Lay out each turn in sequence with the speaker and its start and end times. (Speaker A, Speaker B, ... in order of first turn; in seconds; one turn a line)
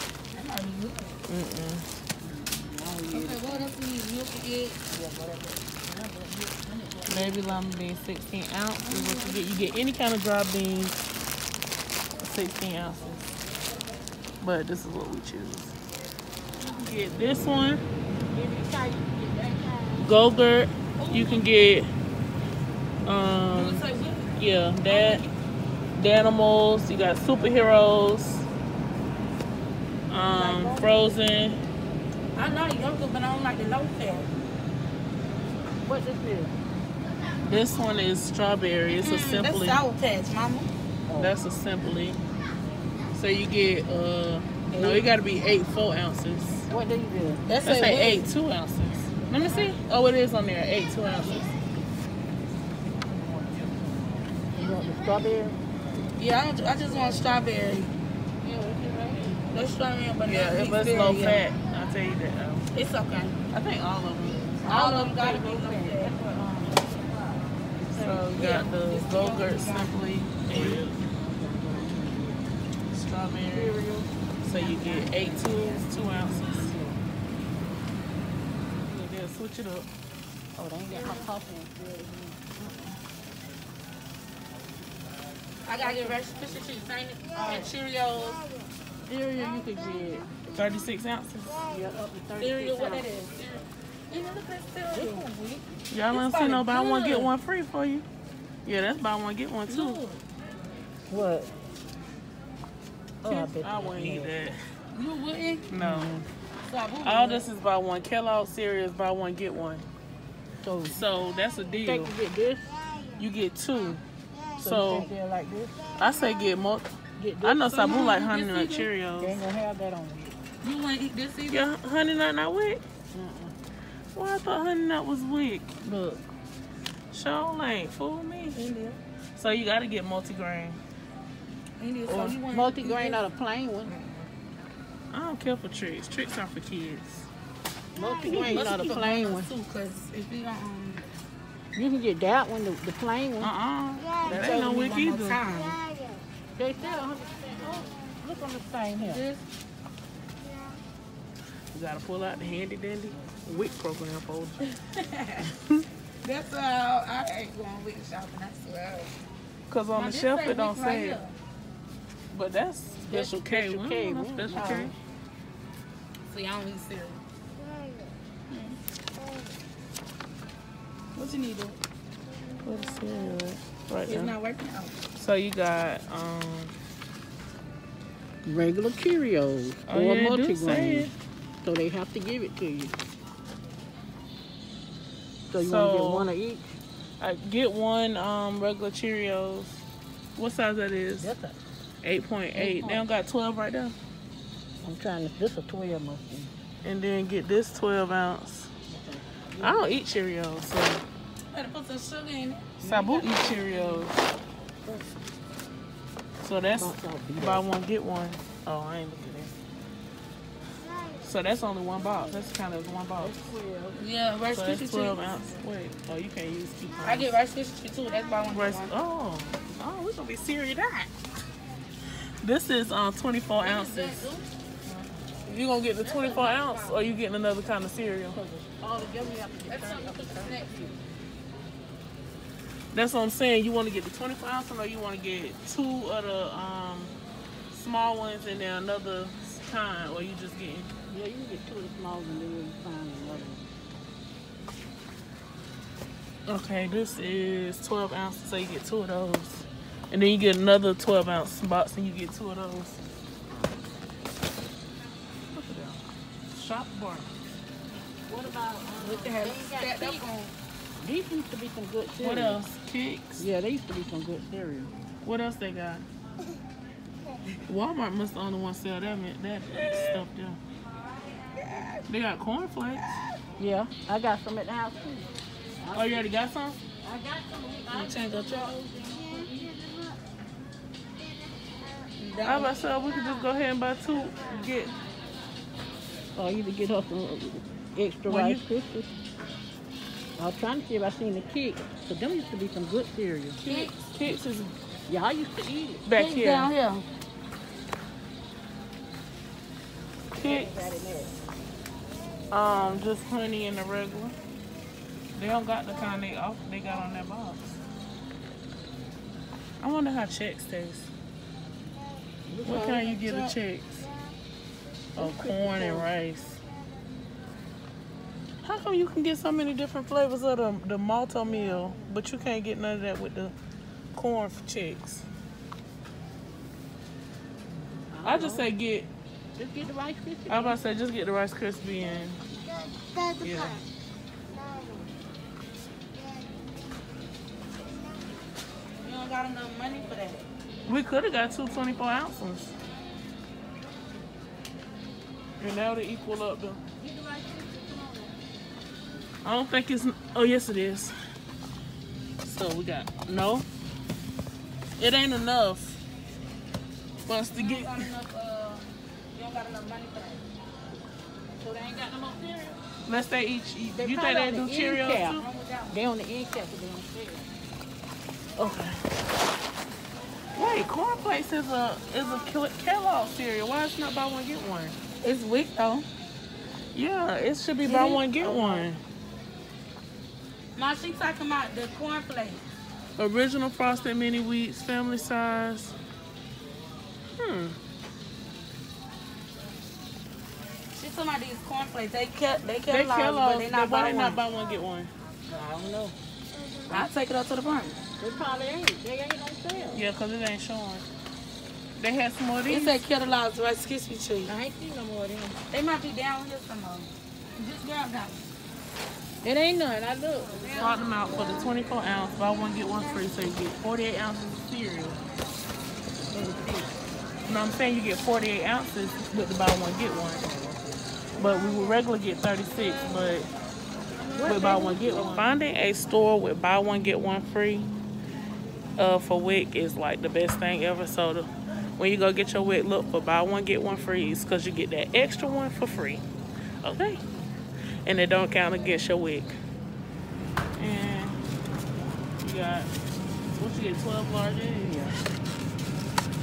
Speaker A: 0.3-1.2
Speaker B: 1.3-1.9
Speaker C: 2.2-3.7
Speaker A: 3.1-4.8
Speaker C: 4.9-7.4
Speaker B: 7.1-11.0
Speaker C: 9.1-9.4
Speaker B: 12.2-13.3
Speaker B: 14.4-15.8
Speaker B: 16.6-17.8
Speaker C: 18.3-20.3
Speaker B: 20.0-21.9
Speaker A: 21.0-21.5
Speaker B: 23.1-23.8
Speaker A: 23.5-25.3
Speaker B: 24.4-25.2
Speaker B: 26.0-28.5
Speaker B: 30.1-31.6
Speaker C: 30.3-31.2
Speaker A: 32.4-34.3
Speaker C: 35.8-36.6
Speaker B: 37.4-39.8
Speaker A: 38.9-40.7
Speaker C: 41.1-41.3
Speaker B: 41.2-42.2
Speaker B: 43.1-46.7
Speaker A: 44.7-45.1
Speaker C: 46.7-47.4
Speaker A: 47.5-48.3
Speaker B: 47.6-51.5
Speaker C: 53.1-53.9
Speaker C: 54.5-55.6
Speaker A: 56.2-57.9
Speaker C: 58.4-59.5
Speaker A: 59.5-61.5
Speaker B: 60.2-62.7
Speaker A: 62.7-63.4
Speaker B: 63.5-64.5
Speaker C: 64.6-68.3
Speaker A: 64.6-66.2
Speaker B: 67.9-71.0
Speaker A: 68.3-70.0
Speaker A: 70.5-70.8
Speaker C: 70.5-72.6
Speaker B: 72.9-73.8
Speaker C: 73.5-74.1
Speaker B: 74.4-76.8
Speaker A: 74.5-75.9
Speaker C: 76.4-77.0
Speaker B: 78.8-79.9
Speaker C: 80.6-83.0
Speaker A: 80.9-81.3
Speaker A: 85.7-88.5
Speaker C: 85.8-86.2
Speaker C: 87.4-87.7
Speaker C: 89.1-90.3
Speaker B: 90.5-91.7
Speaker C: 91.7-93.1
Speaker A: 92.4-97.3
Speaker C: 94.9-95.3
Speaker B: 95.9-98.1
Speaker B: 98.7-100.0
Speaker A: 99.7-100.2
Speaker C: 101.1-101.5
Speaker C: 103.2-104.5
Speaker B: 103.3-104.6
Speaker A: 104.9-105.7
Speaker B: 105.7-106.1
Speaker C: 105.8-106.3
Speaker A: 106.7-107.5
Speaker B: 107.0-109.9
Speaker C: 110.6-111.0
Speaker B: 110.8-112.2
Speaker C: 111.8-112.8
Speaker B: 113.2-114.0
Speaker C: 114.6-115.8
Speaker B: 114.6-115.1
Speaker B: 116.0-116.9
Speaker C: 117.2-118.1
Speaker B: 117.4-119.4
Speaker A: 117.7-118.9
Speaker C: 119.2-120.4
Speaker A: 120.6-121.7
Speaker B: 121.5-122.8
Speaker C: 123.1-123.5
Speaker B: 124.1-125.8
Speaker C: 125.8-126.3
Speaker B: 127.1-128.6
Speaker A: 128.5-129.0
Speaker B: 129.3-130.8
Speaker A: 131.8-133.3
Speaker C: 132.1-133.9
Speaker A: 133.9-134.3
Speaker B: 135.1-137.3
Speaker C: 137.9-139.5
Speaker B: 138.2-139.0
Speaker A: 138.3-141.1
Speaker C: 141.8-143.5
Speaker B: 143.4-145.4
Speaker A: 144.2-145.8
Speaker C: 146.6-149.2
Speaker A: 149.0-149.5
Speaker B: 151.7-154.6
Speaker A: 154.7-155.5
Speaker A: 156.2-159.2
Speaker B: 159.7-161.2
Speaker A: 159.9-161.4
Speaker B: 162.3-164.9
Speaker C: 163.1-164.9
Speaker A: 166.3-167.2
Speaker A: 168.5-168.8
Speaker A: 171.2-171.8
Speaker B: 172.6-174.3
Speaker A: 174.1-175.0
Speaker B: 175.2-176.8
Speaker C: 178.4-183.0
Speaker B: 179.9-181.1
Speaker C: 185.5-186.7
Speaker B: 185.6-186.3
Speaker B: 187.2-189.8
Speaker B: 190.4-191.3
Speaker C: 191.2-191.6
Speaker B: 192.0-193.9
Speaker C: 192.5-193.1
Speaker C: 194.8-196.5
Speaker B: 196.8-198.7
Speaker C: 198.9-200.1
Speaker B: 199.6-201.1
Speaker A: 201.5-204.1
Speaker B: 202.8-204.3
Speaker C: 202.9-203.3
Speaker B: 206.4-209.5
Speaker C: 206.8-207.7
Speaker B: 211.2-213.6
Speaker C: 213.2-214.0
Speaker A: 213.9-215.4
Speaker B: 214.5-217.4
Speaker A: 217.0-218.9
Speaker B: 218.5-221.1
Speaker B: 222.4-224.3
Speaker A: 223.6-224.5
Speaker B: 225.4-228.4
Speaker A: 226.0-227.0
Speaker C: 228.3-231.0
Speaker A: 229.7-231.0
Speaker B: 232.9-237.2
Speaker B: 237.7-240.9
Speaker C: 241.1-243.7
Speaker B: 246.5-253.0
Speaker B: 255.5-256.0
Speaker B: 256.5-257.3
Speaker C: 258.3-260.2
Speaker A: 259.0-260.5
Speaker C: 261.0-262.6
Speaker B: 262.2-263.5
Speaker C: 263.4-264.9
Speaker B: 265.2-266.1
Speaker B: 267.7-270.6
Speaker B: 272.1-273.2
Speaker C: 273.6-276.2
Speaker B: 275.9-276.8
Speaker C: 277.0-280.1
Speaker A: 277.9-278.8
Speaker A: 282.2-282.9
Speaker B: 282.4-284.9
Speaker C: 286.4-289.1
Speaker B: 288.3-288.6
Speaker C: 290.4-293.6
Speaker B: 293.6-294.8
Speaker A: 293.7-293.9
Speaker C: 295.1-296.1
Speaker B: 296.1-296.7
Speaker A: 296.2-297.1
Speaker B: 300.4-301.3
Speaker C: 300.4-301.4
Speaker B: 302.5-304.4
Speaker B: 305.4-307.8
Speaker B: 309.8-311.1
Speaker C: 312.5-313.5
Speaker B: 312.6-314.1
Speaker C: 315.2-316.1
Speaker B: 315.2-316.6
Speaker B: 318.6-323.5
Speaker B: 324.1-325.3
Speaker C: 327.9-328.7
Speaker B: 328.2-329.1
Speaker C: 329.6-330.8
Speaker B: 330.5-332.4
Speaker B: 333.4-333.8
Speaker A: 339.0-340.5
Speaker B: 340.9-342.8
Speaker B: 345.6-346.8
Speaker C: 347.0-348.4
Speaker B: 349.4-351.1
Speaker B: 352.4-353.7
Speaker B: 355.0-356.0
Speaker B: 357.3-358.1
Speaker A: 357.5-360.5
Speaker C: 361.6-362.8
Speaker B: 363.1-365.5
Speaker C: 363.9-367.5
Speaker A: 365.2-366.0
Speaker B: 368.6-369.0
Speaker B: 370.6-375.0
Speaker A: 375.2-376.1
Speaker B: 376.9-379.0
Speaker A: 377.8-378.9
Speaker A: 380.8-382.6
Speaker B: 383.2-386.0
Speaker B: 387.4-387.8
Speaker A: 390.9-394.4
Speaker B: 392.9-395.1
Speaker C: 395.5-396.2
Speaker A: 396.9-398.0
Speaker C: 398.2-400.1
Speaker B: 399.9-401.1
Speaker B: 402.0-403.0
Speaker A: 402.7-404.5
Speaker C: 404.4-405.6
Speaker A: 405.7-408.5
Speaker C: 409.4-411.0
Speaker B: 410.8-415.2
Speaker C: 416.3-417.0
Speaker B: 417.5-420.5
Speaker C: 420.4-421.0
Speaker B: 421.4-423.5
Speaker C: 424.3-425.4
Speaker B: 424.4-427.9
Speaker B: 429.0-436.2
Speaker B: 436.8-437.2
Speaker B: 438.1-439.6
Speaker B: 440.8-441.4
Speaker B: 442.4-442.9
Speaker B: 443.5-445.1
Speaker C: 444.8-445.2